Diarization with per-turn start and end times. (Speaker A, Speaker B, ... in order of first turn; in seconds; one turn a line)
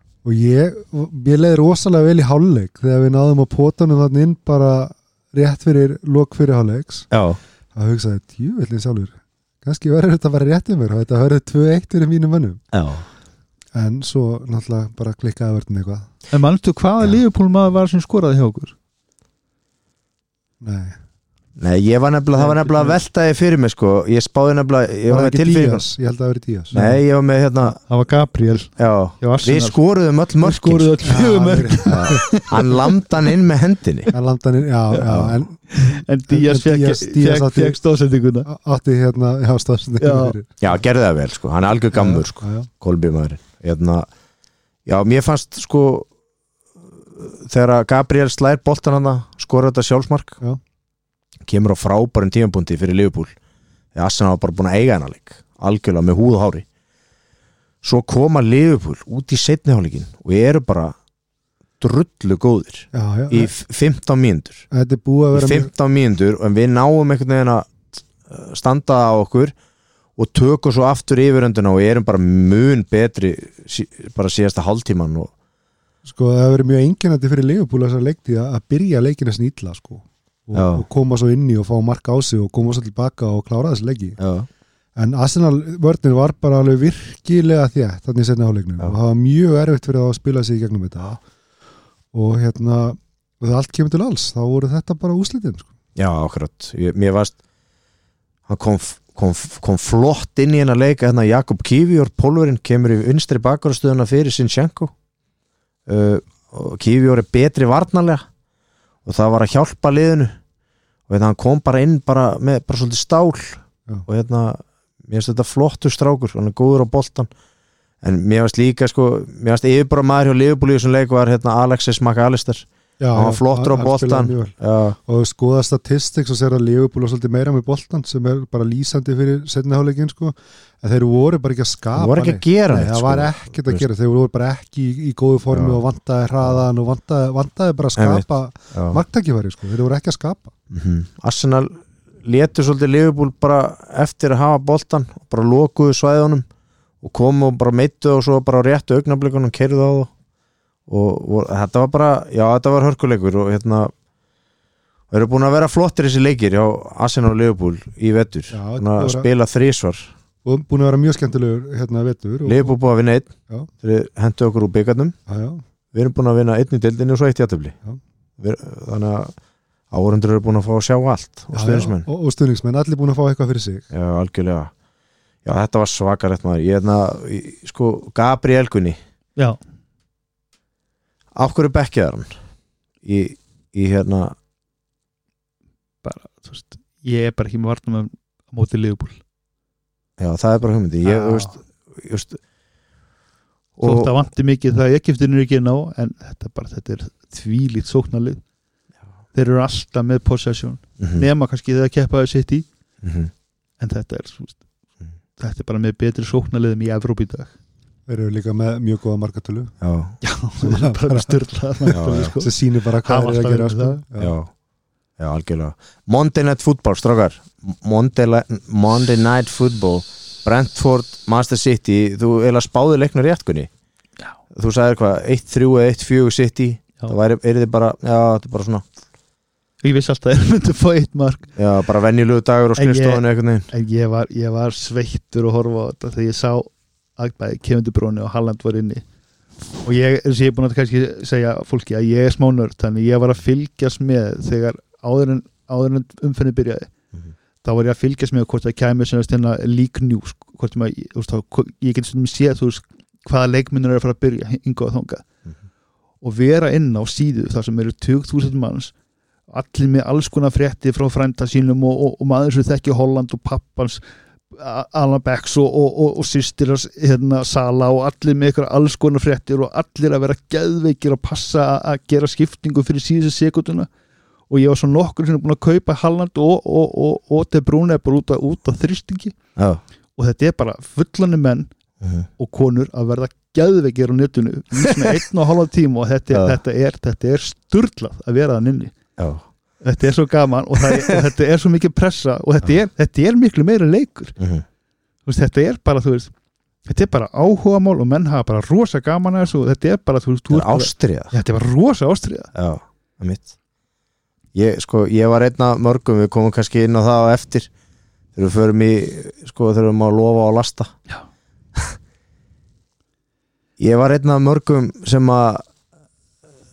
Speaker A: 0.2-7.1
Speaker B: 7.1-7.4
Speaker A: 7.7-12.6
Speaker B: 12.7-13.1
Speaker A: 13.7-16.1
Speaker C: 16.3-18.7
Speaker A: 20.6-21.0
Speaker B: 21.6-25.9
Speaker C: 22.4-23.0
Speaker A: 25.1-27.0
Speaker B: 26.7-27.8
Speaker C: 27.9-29.8
Speaker B: 28.8-31.0
Speaker C: 30.4-32.9
Speaker A: 31.0-32.2
Speaker B: 31.9-34.1
Speaker A: 34.1-35.8
Speaker B: 35.0-35.4
Speaker C: 35.7-38.5
Speaker A: 36.3-37.8
Speaker A: 38.5-40.6
Speaker C: 40.0-40.4
Speaker B: 40.6-44.1
Speaker A: 41.9-42.7
Speaker B: 44.9-46.1
Speaker B: 47.1-50.4
Speaker B: 51.5-53.3
Speaker B: 54.0-56.6
Speaker B: 57.8-61.0
Speaker B: 61.8-64.6
Speaker A: 62.9-63.5
Speaker A: 64.7-65.7
Speaker B: 65.3-69.5
Speaker B: 70.2-75.3
Speaker A: 76.0-84.2
Speaker B: 80.5-80.8
Speaker B: 84.2-84.5
Speaker A: 85.0-91.2
Speaker A: 92.1-95.7
Speaker B: 96.0-97.3
Speaker B: 98.5-104.9
Speaker B: 105.9-108.2
Speaker B: 109.0-110.3
Speaker B: 111.1-117.3
Speaker B: 118.0-125.0
Speaker A: 123.0-140.5
Speaker B: 131.9-133.8
Speaker B: 135.5-135.8
Speaker B: 138.0-139.0
Speaker B: 140.7-146.4
Speaker B: 147.0-150.1
Speaker B: 150.9-153.9
Speaker B: 155.1-160.1
Speaker A: 158.5-159.3
Speaker A: 160.4-162.8
Speaker B: 162.4-163.3
Speaker B: 163.8-165.1
Speaker A: 165.3-165.6
Speaker B: 165.9-167.7
Speaker B: 168.4-169.3
Speaker B: 169.9-172.1
Speaker A: 171.5-173.8
Speaker B: 173.9-174.7
Speaker B: 175.4-179.0
Speaker B: 181.4-182.3
Speaker B: 183.0-184.3
Speaker C: 186.0-189.2
Speaker B: 190.2-192.4
Speaker C: 191.0-191.6
Speaker B: 193.8-194.2
Speaker C: 193.8-198.4
Speaker C: 199.3-202.7
Speaker B: 201.0-201.3
Speaker B: 203.0-203.3
Speaker C: 203.8-204.6
Speaker C: 205.4-207.5
Speaker A: 208.1-209.7
Speaker B: 209.8-210.2
Speaker C: 210.2-214.0
Speaker A: 210.6-214.3
Speaker B: 211.9-212.3
Speaker B: 214.2-214.5
Speaker B: 215.2-223.7
Speaker B: 224.5-228.8
Speaker C: 229.8-231.5
Speaker B: 231.6-233.7
Speaker C: 232.8-239.0
Speaker C: 239.8-246.9
Speaker C: 247.6-255.2
Speaker C: 256.2-258.9
Speaker C: 259.5-273.9
Speaker C: 274.5-279.4
Speaker C: 280.2-281.7
Speaker B: 282.0-282.3
Speaker C: 282.4-288.9
Speaker B: 286.3-286.6
Speaker B: 289.2-289.4
Speaker C: 289.8-294.4
Speaker B: 294.4-294.6
Speaker C: 295.3-296.3
Speaker C: 296.9-302.5
Speaker B: 300.5-301.3
Speaker B: 302.6-303.5
Speaker B: 304.5-307.7
Speaker B: 308.4-310.9
Speaker B: 313.8-315.6